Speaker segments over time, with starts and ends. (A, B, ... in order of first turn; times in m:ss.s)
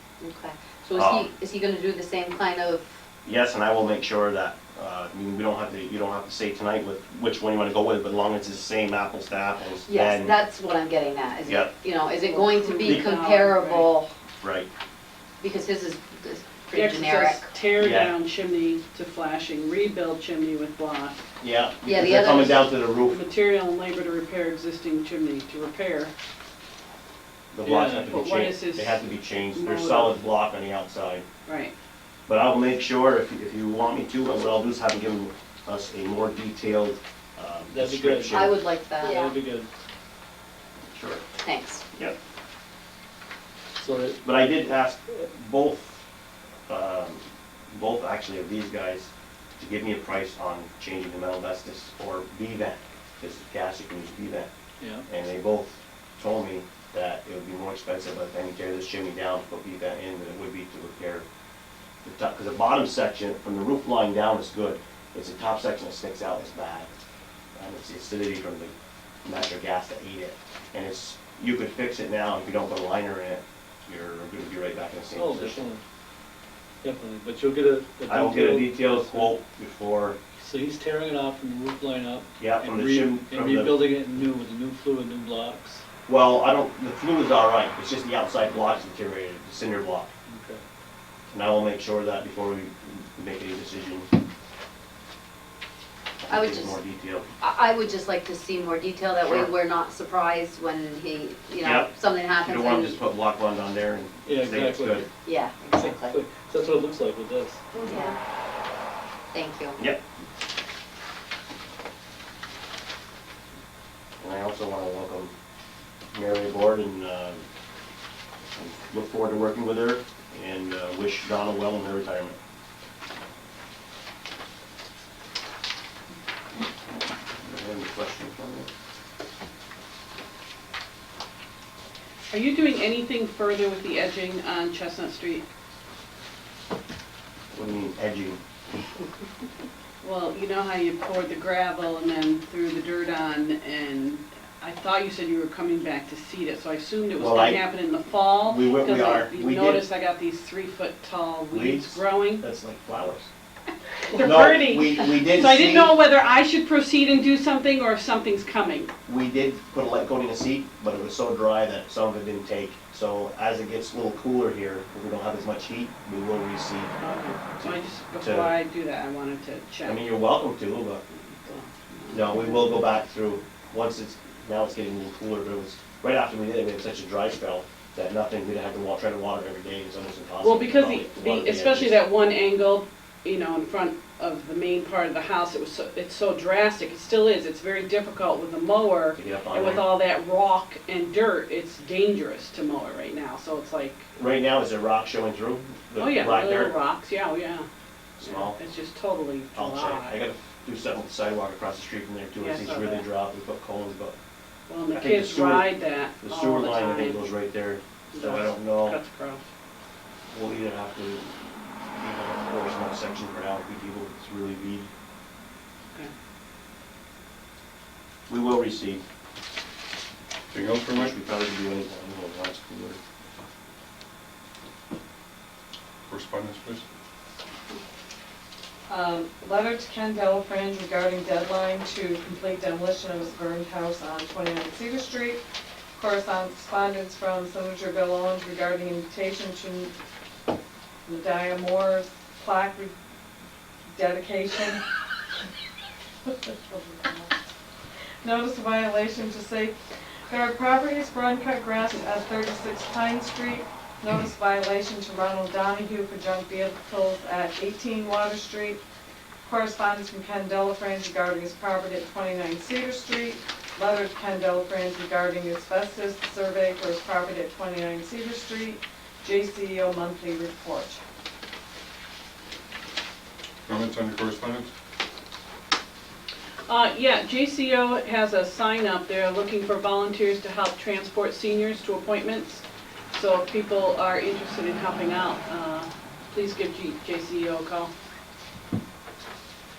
0:00.2-0:02.9 A
0:00.9-0:01.3 B
0:03.2-0:10.4 B
0:09.8-0:14.1 A
0:11.4-0:11.7 B
0:12.2-0:13.9 C
0:14.4-0:14.7 B
0:15.4-0:17.5 A
0:16.7-0:21.2 C
0:17.7-0:18.1 B
0:21.4-0:23.2 B
0:21.8-0:22.7 A
0:23.1-0:26.1 C
0:27.5-0:31.2 B
0:27.6-0:28.1 D
0:28.1-0:30.2 C
0:31.4-0:31.7 C
0:32.3-0:38.6 B
0:37.7-0:38.5 D
0:38.3-0:39.3 A
0:39.0-0:39.7 D
0:40.9-0:41.2 B
0:41.4-0:41.8 A
0:43.8-0:44.4 D
0:44.2-0:46.0 B
0:46.7-0:54.5 B
0:55.1-1:01.2 B
1:02.0-1:06.9 B
1:07.6-1:08.7 B
1:09.2-1:15.6 B
1:15.1-1:15.8 D
1:16.8-1:19.3 D
1:18.1-1:20.2 B
1:20.4-1:25.8 D
1:22.4-1:23.8 B
1:26.1-1:30.1 B
1:30.3-1:30.6 D
1:31.3-1:34.1 B
1:36.2-1:37.3 B
1:36.3-1:36.8 A
1:37.4-1:43.0 A
1:39.2-1:39.5 B
1:41.6-1:45.0 B
1:44.2-1:45.1 D
1:45.2-1:46.2 A
1:45.6-1:47.6 D
1:47.7-1:48.2 A
1:49.3-1:49.8 A
1:54.2-1:55.3 B
1:56.1-1:57.4 B
1:58.5-2:02.4 B
2:07.4-2:08.7 B
2:12.3-2:15.4 C
2:17.5-2:18.4 B
2:20.0-2:32.4 C
2:27.2-2:27.6 B
2:28.4-2:29.9 B
2:31.5-2:33.3 B
2:34.1-2:38.9 C
2:34.2-2:35.9 B
2:39.1-2:46.9 B
2:47.0-2:50.1 C
2:47.6-2:48.6 B
2:49.8-2:51.0 B
2:51.1-2:52.9 C
2:52.1-3:02.0 B
3:00.4-3:14.1 C
3:09.2-3:09.9 B
3:14.2-3:16.7 B
3:15.9-3:17.6 C
3:18.2-3:18.6 B
3:18.2-3:20.2 C
3:19.5-3:24.2 B
3:22.4-3:23.1 C
3:24.7-3:27.2 C
3:24.9-3:25.7 B
3:26.2-3:29.0 B
3:28.1-3:29.4 C
3:30.3-3:31.3 B
3:32.0-3:34.9 B
3:38.3-3:39.0 B
3:40.5-3:41.2 E
3:40.9-3:43.0 B
3:46.0-3:46.8 E
3:48.9-3:55.4 F
3:56.0-3:59.9 F
4:01.0-4:02.9 F
4:03.9-4:04.8 F
4:06.2-4:07.4 F
4:08.2-4:09.8 F
4:10.3-4:18.8 F
4:19.4-4:31.0 F
4:33.7-4:34.7 E
4:36.7-4:47.9 C